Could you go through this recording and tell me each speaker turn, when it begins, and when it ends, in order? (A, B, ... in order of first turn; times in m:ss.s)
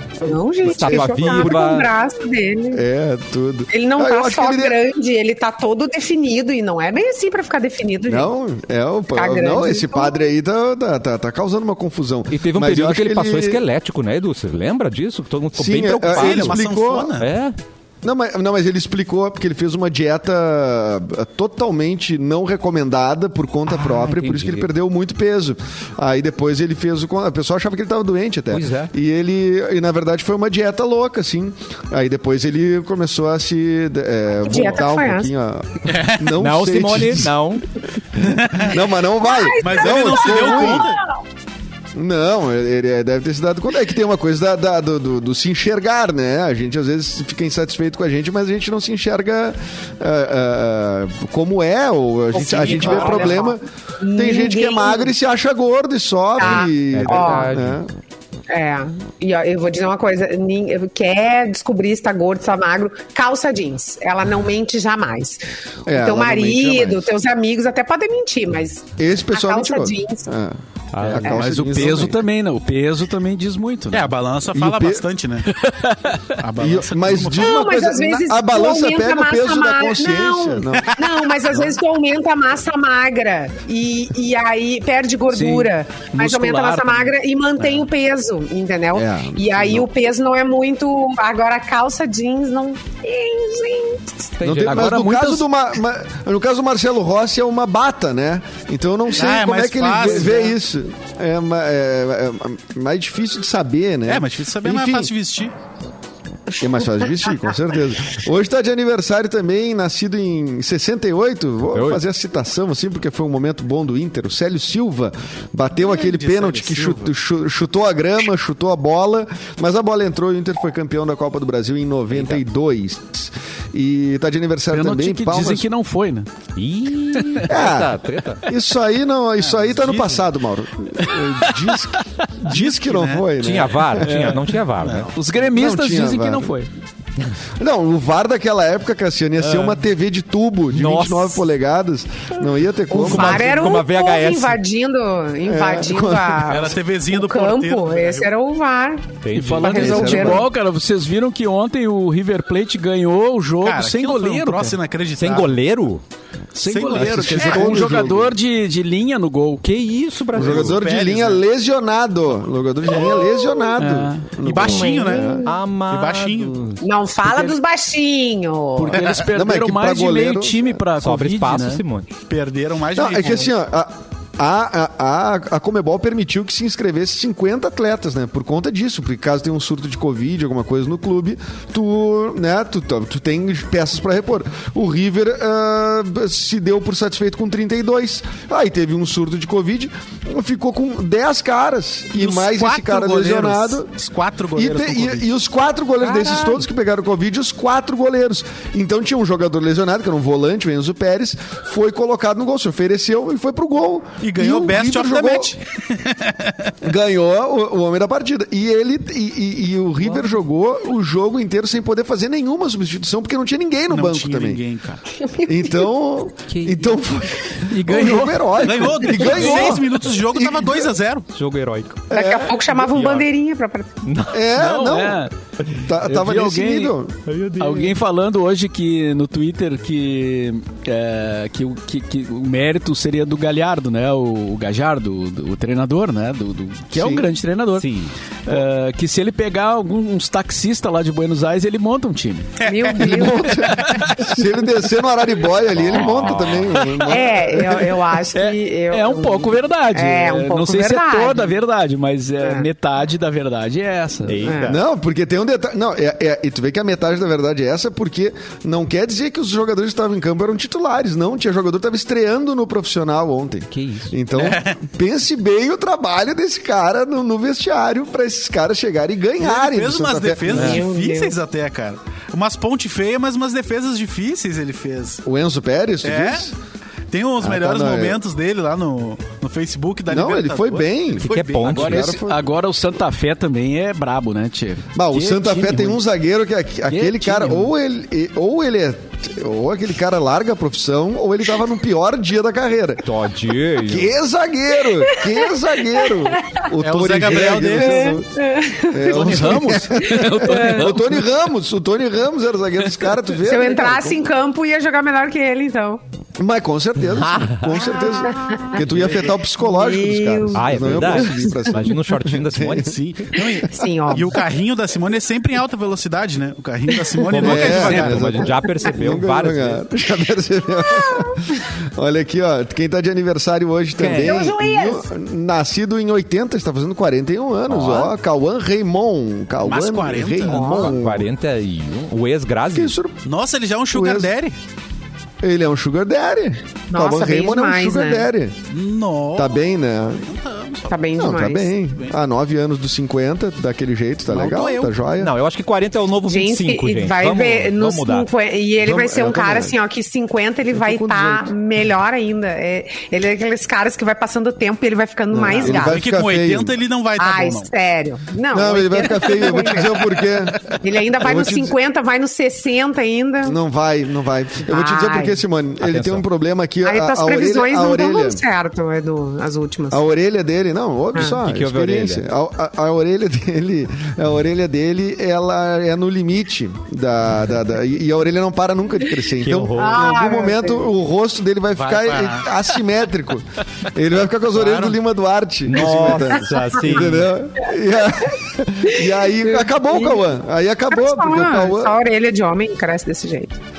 0:00.2-0:02.8 A
0:00.6-0:01.9 B
0:00.7-0:01.6 C
0:02.7-0:04.8 C
0:03.7-0:08.3 A
0:08.1-0:13.6 C
0:09.1-0:10.2 A
0:12.3-0:16.6 B
0:15.6-0:17.1 C
0:16.1-0:17.3 D
0:17.2-0:17.6 B
0:18.0-0:37.3 C
0:23.9-0:24.7 B
0:28.5-0:28.9 B
0:34.4-0:35.3 A
0:35.9-0:36.3 D
0:36.4-0:37.7 B
0:38.2-0:41.0 C
0:38.3-0:38.8 D
0:39.2-0:41.0 A
0:39.6-0:41.0 D
0:42.0-0:57.9 C
0:52.3-0:55.1 A
0:52.4-0:53.4 D
0:56.4-0:57.6 A
0:56.7-0:57.8 B
0:58.5-1:10.3 A
1:05.9-1:07.1 C
1:09.0-1:12.2 C
1:10.9-1:11.4 B
1:11.0-1:14.1 E
1:13.9-1:15.5 D
1:14.5-1:15.0 C
1:15.5-1:16.4 E
1:16.4-1:17.7 D
1:16.6-1:21.0 C
1:17.4-1:34.4 A
1:25.3-1:27.2 E
1:28.9-1:29.9 C
1:34.4-1:35.0 B
1:34.4-1:45.1 C
1:34.5-1:35.5 E
1:39.2-1:40.6 D
1:44.1-1:45.5 D
1:46.6-2:05.7 C
1:51.7-1:52.0 B
1:55.8-1:57.1 D
2:02.1-2:02.4 B
2:04.7-2:06.3 E
2:06.6-2:08.4 B
2:07.2-2:07.5 E
2:07.5-2:14.1 C
2:09.4-2:10.3 D
2:11.0-2:12.3 E
2:12.5-2:13.3 D
2:13.4-2:15.1 B
2:14.0-2:16.7 E
2:14.8-2:15.1 D
2:15.5-2:16.5 C
2:17.6-2:23.8 C
2:20.7-2:21.4 B
2:22.9-2:30.5 A
2:23.0-2:24.6 B
2:25.4-2:26.7 C
2:26.5-2:28.3 D
2:29.2-2:30.4 B
2:29.3-2:34.8 E
2:29.7-2:30.5 C
2:33.6-2:35.5 D
2:35.2-2:36.0 B
2:36.6-2:39.6 E
2:36.7-2:37.9 D
2:36.9-2:38.4 C
2:39.6-2:40.8 B
2:40.3-2:45.5 C
2:40.4-2:41.4 D
2:43.2-2:43.6 A
2:43.8-2:44.3 E
2:44.4-2:46.6 D
2:44.6-2:45.6 A
2:45.4-2:46.8 B
2:46.8-2:49.0 A
2:47.2-2:47.6 E
2:48.8-2:51.8 E
2:48.9-2:49.2 D
2:49.3-2:50.8 C
2:51.0-2:52.1 B
2:52.3-2:53.5 D
2:53.0-3:13.9 C
3:12.2-3:15.3 D
3:14.6-3:25.6 C
3:24.2-3:26.8 D
3:26.8-3:34.6 C
3:33.9-3:35.1 D
3:35.2-3:35.9 A
3:35.5-3:40.9 C
3:36.5-3:37.0 B
3:37.6-3:39.8 E
3:38.6-3:41.3 D
3:41.3-3:42.1 B
3:42.1-3:42.7 C
3:42.1-3:44.0 A
3:42.8-3:43.3 B
3:44.0-3:44.4 B
3:44.3-3:45.2 C
3:44.5-3:45.3 E
3:45.8-3:47.2 C
3:46.0-3:47.0 E
3:47.3-3:48.0 B
3:47.6-3:57.9 E
3:56.9-3:57.3 C
3:57.8-3:58.1 B
3:58.5-4:02.6 E
4:02.6-4:03.3 D
4:02.6-4:03.8 A
4:03.0-4:08.0 C
4:03.7-4:04.4 E
4:05.8-4:06.8 B
4:06.7-4:07.1 E
4:07.0-4:11.6 A
4:08.3-4:14.5 E
4:12.4-4:12.7 A
4:14.3-4:14.8 B
4:14.4-4:14.8 A
4:14.6-4:30.8 C
4:23.7-4:24.1 B
4:24.3-4:24.8 D
4:29.4-4:35.2 D
4:30.5-4:31.4 A
4:35.2-4:36.6 C
4:36.0-4:36.5 D
4:37.1-4:41.9 D
4:37.4-4:38.2 C
4:40.1-4:42.5 C
4:41.2-4:42.1 B
4:41.6-4:46.0 E
4:45.0-4:53.1 C
4:46.9-4:47.7 E
4:53.0-4:54.1 B
4:53.8-4:58.3 C
4:56.0-4:56.6 A
4:56.8-4:58.2 D
4:57.8-5:00.9 A
4:58.9-5:04.2 C
4:59.0-5:01.2 E
5:03.4-5:06.0 A
5:06.4-5:12.9 C
5:07.2-5:07.8 B
5:08.0-5:08.8 A
5:08.9-5:09.3 D
5:09.6-5:11.5 A
5:10.5-5:13.0 B
5:12.8-5:18.4 D
5:13.3-5:14.4 A
5:17.3-5:19.8 B
5:17.4-5:31.3 C
5:17.4-5:18.4 E
5:21.0-5:21.4 A
5:24.0-5:24.4 B
5:24.0-5:25.1 A
5:27.7-5:28.1 B
5:29.6-5:30.8 D
5:30.5-5:31.0 A
5:30.6-5:33.0 B
5:32.7-5:33.2 C
5:33.2-5:34.6 D
5:33.9-5:34.3 C
5:35.4-5:38.6 C
5:36.9-5:38.3 A
5:38.7-5:41.2 D
5:39.4-5:40.2 C
5:40.9-5:41.8 A
5:41.2-5:45.3 C
5:44.3-5:45.0 D
5:45.2-5:48.3 B
5:46.2-5:56.0 A
5:48.8-5:49.8 C
5:50.7-5:51.5 C
5:55.3-5:56.8 C
5:55.6-5:57.7 D
5:57.2-6:00.0 A
5:58.5-6:01.8 C
6:00.7-6:03.6 A
6:03.4-6:08.4 C
6:04.7-6:05.4 A
6:05.8-6:06.2 B
6:06.8-6:10.0 A
6:09.9-6:32.0 C
6:11.4-6:12.2 B
6:19.4-6:20.0 B
6:19.7-6:20.9 A
6:21.8-6:22.7 D
6:24.5-6:25.0 D
6:25.6-6:27.4 B
6:28.9-6:30.3 A
6:30.9-6:33.6 A